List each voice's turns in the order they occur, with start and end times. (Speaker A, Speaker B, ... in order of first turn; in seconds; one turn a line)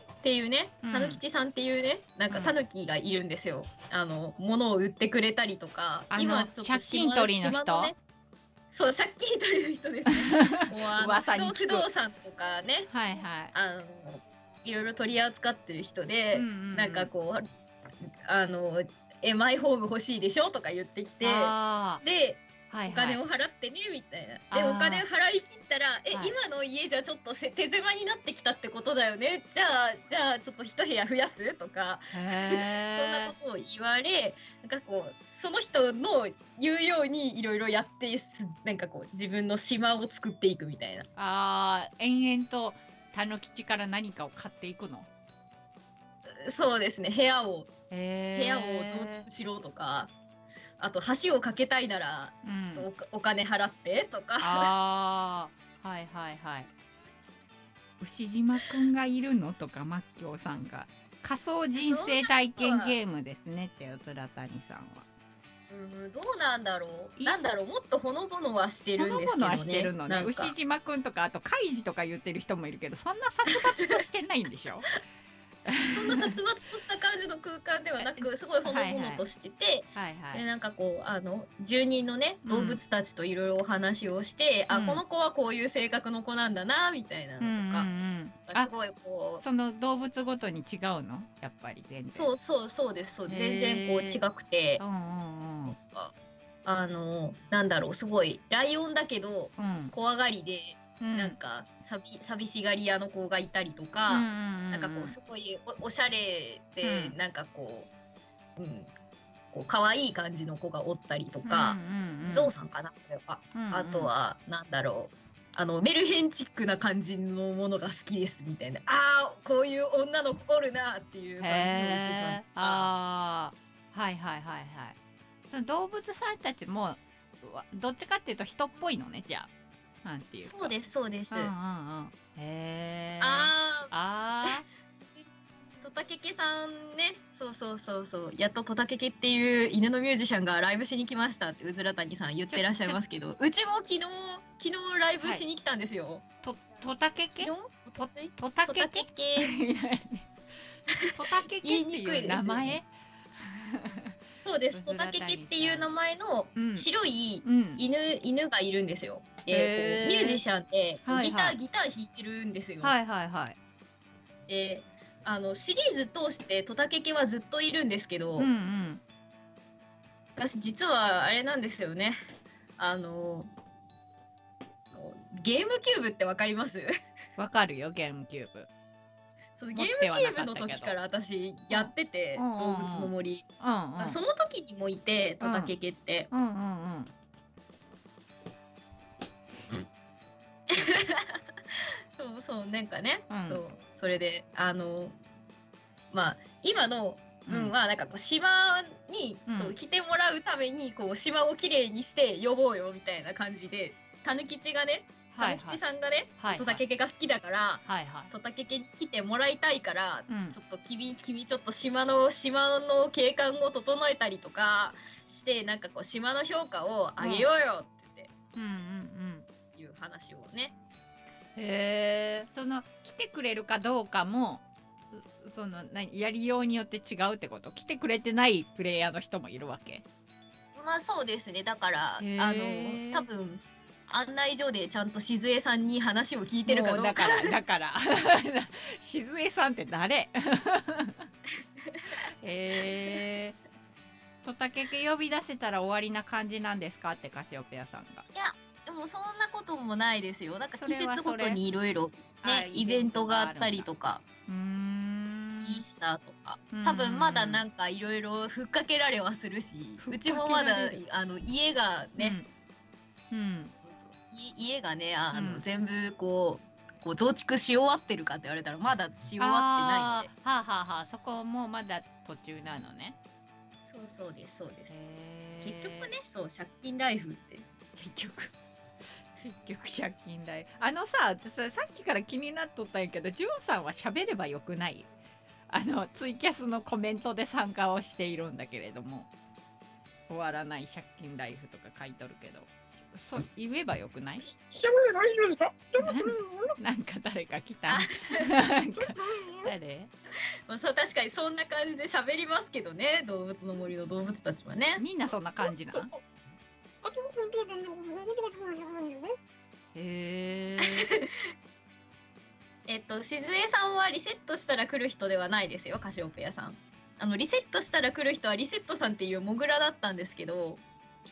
Speaker A: 0.2-8.0
Speaker B: 0.8-1.2
Speaker B: 2.3-2.6
Speaker B: 6.1-7.9
Speaker A: 8.7-12.9
Speaker B: 10.3-11.9
Speaker B: 12.9-13.5
Speaker A: 13.5-17.5
Speaker B: 16.3-17.1
Speaker A: 18.3-41.1
Speaker B: 21.2-22.0
Speaker B: 22.7-23.2
Speaker B: 24.5-25.1
Speaker B: 32.1-33.4
Speaker B: 41.2-45.1
Speaker A: 46.3-47.7
Speaker B: 47.9-49.3
Speaker A: 48.4-50.1
Speaker A: 50.8-54.7
Speaker B: 52.5-52.9
Speaker B: 54.4-56.7
Speaker B: 58.0-65.1
Speaker A: 61.8-63.0
Speaker A: 65.7-70.5
Speaker B: 67.2-67.5
Speaker B: 69.0-74.9
Speaker B: 75.7-76.3
Speaker A: 75.9-87.9
Speaker B: 78.0-79.2
Speaker B: 80.0-80.4
Speaker B: 82.5-82.8
Speaker B: 84.7-85.0
Speaker B: 87.4-88.7
Speaker A: 88.5-89.4
Speaker B: 89.4-92.3
Speaker A: 92.1-94.8
Speaker B: 93.3-94.2
Speaker B: 94.8-95.8
Speaker A: 95.8-96.1
Speaker A: 96.7-107.9
Speaker B: 99.6-100.0
Speaker B: 101.0-101.4
Speaker B: 104.1-105.2
Speaker B: 106.8-107.2
Speaker A: 108.6-108.9
Speaker A: 109.5-122.9
Speaker B: 111.5-112.5
Speaker B: 113.5-114.1
Speaker B: 121.4-125.0
Speaker B: 125.5-129.5
Speaker B: 130.0-130.8
Speaker A: 130.4-131.5
Speaker B: 131.3-134.7
Speaker A: 133.2-133.9
Speaker A: 135.8-146.2
Speaker B: 142.5-143.0
Speaker B: 146.4-150.3
Speaker A: 147.4-149.6
Speaker A: 151.0-152.8
Speaker B: 151.1-154.2
Speaker A: 154.4-162.9
Speaker B: 154.7-155.9
Speaker B: 156.6-156.9
Speaker B: 157.4-157.8
Speaker B: 159.5-160.4
Speaker B: 161.1-161.6
Speaker B: 162.8-163.6
Speaker A: 164.5-168.5
Speaker B: 168.4-169.0
Speaker A: 170.4-172.2
Speaker A: 172.8-173.5
Speaker A: 174.9-176.9
Speaker B: 177.4-178.7
Speaker A: 179.6-183.5
Speaker B: 179.8-181.0
Speaker B: 181.7-184.2
Speaker A: 184.0-186.3
Speaker B: 185.4-185.8
Speaker B: 186.3-187.1
Speaker A: 190.7-191.4
Speaker A: 192.2-195.2
Speaker B: 193.3-193.6
Speaker A: 196.1-218.3
Speaker B: 197.5-197.8
Speaker B: 199.5-199.8
Speaker B: 205.3-205.8
Speaker B: 206.4-206.8
Speaker B: 207.8-208.3
Speaker B: 210.3-210.6
Speaker B: 217.2-217.5
Speaker B: 218.6-219.5
Speaker A: 219.8-220.8
Speaker B: 221.6-230.0
Speaker A: 230.8-237.5
Speaker B: 232.2-233.3
Speaker B: 236.7-241.3
Speaker B: 242.4-243.6
Speaker B: 244.4-248.3
Speaker A: 248.3-254.2
Speaker B: 250.8-251.6
Speaker B: 252.4-253.9
Speaker B: 254.5-255.8
Speaker A: 255.6-262.4
Speaker B: 256.7-257.6
Speaker B: 260.0-261.0
Speaker B: 262.2-262.5
Speaker B: 263.3-263.7
Speaker A: 263.8-270.3
Speaker B: 265.3-265.6
Speaker B: 269.4-273.2
Speaker A: 273.9-275.0
Speaker B: 274.9-276.1
Speaker A: 275.6-277.6
Speaker B: 278.0-278.5
Speaker B: 279.4-285.1
Speaker B: 285.7-289.3
Speaker B: 290.3-294.5
Speaker C: 294.6-296.8
Speaker B: 296.0-300.1
Speaker A: 297.9-298.5
Speaker C: 299.0-299.7
Speaker A: 300.7-305.0
Speaker B: 305.0-306.1
Speaker C: 305.9-306.2
Speaker C: 307.0-309.4
Speaker B: 309.9-311.1
Speaker A: 310.9-311.3
Speaker A: 312.9-320.8